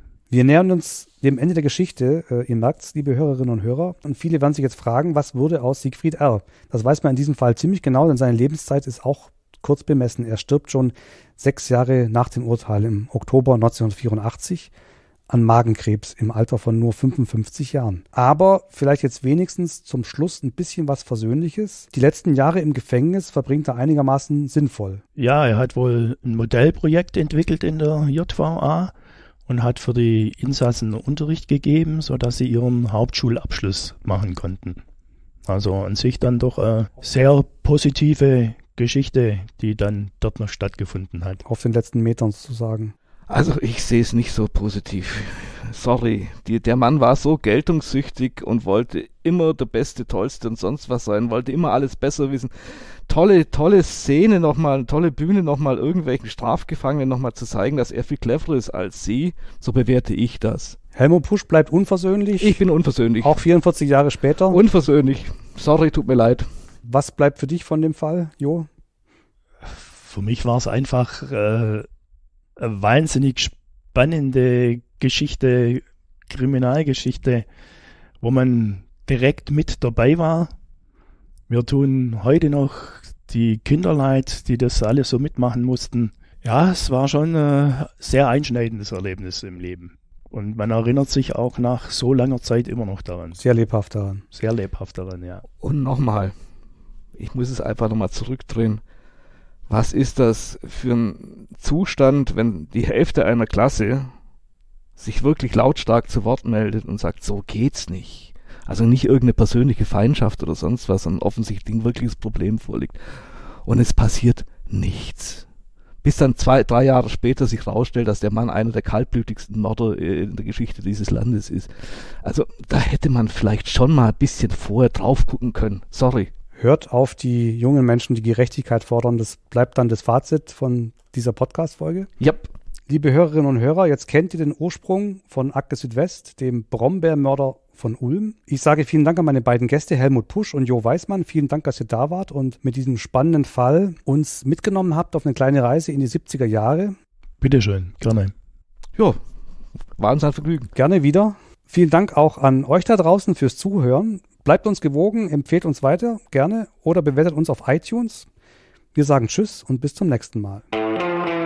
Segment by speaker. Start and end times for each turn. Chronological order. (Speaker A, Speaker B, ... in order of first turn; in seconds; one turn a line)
Speaker A: 0.3-14.7
Speaker A: 15.3-25.0
Speaker B: 25.1-28.9
Speaker B: 29.5-34.8
Speaker B: 35.5-41.4
Speaker A: 41.4-42.9
Speaker C: 43.3-60.8
Speaker A: 60.9-62.6
Speaker C: 62.4-63.4
Speaker A: 63.2-64.6
Speaker C: 64.5-66.5
Speaker A: 66.8-68.7
Speaker B: 69.6-71.9
Speaker B: 72.6-77.4
Speaker B: 78.2-80.5
Speaker B: 81.5-93.4
Speaker A: 93.4-94.2
Speaker B: 94.3-95.4
Speaker C: 95.6-96.3
Speaker C: 97.2-98.8
Speaker C: 99.7-104.1
Speaker C: 105.0-113.0
Speaker C: 113.6-115.5
Speaker C: 116.0-126.3
Speaker A: 126.5-132.1
Speaker C: 132.2-132.5
Speaker A: 132.9-147.0
Speaker B: 147.4-148.3
Speaker C: 150.0-150.7
Speaker A: 150.7-158.3
Speaker A: 158.9-160.6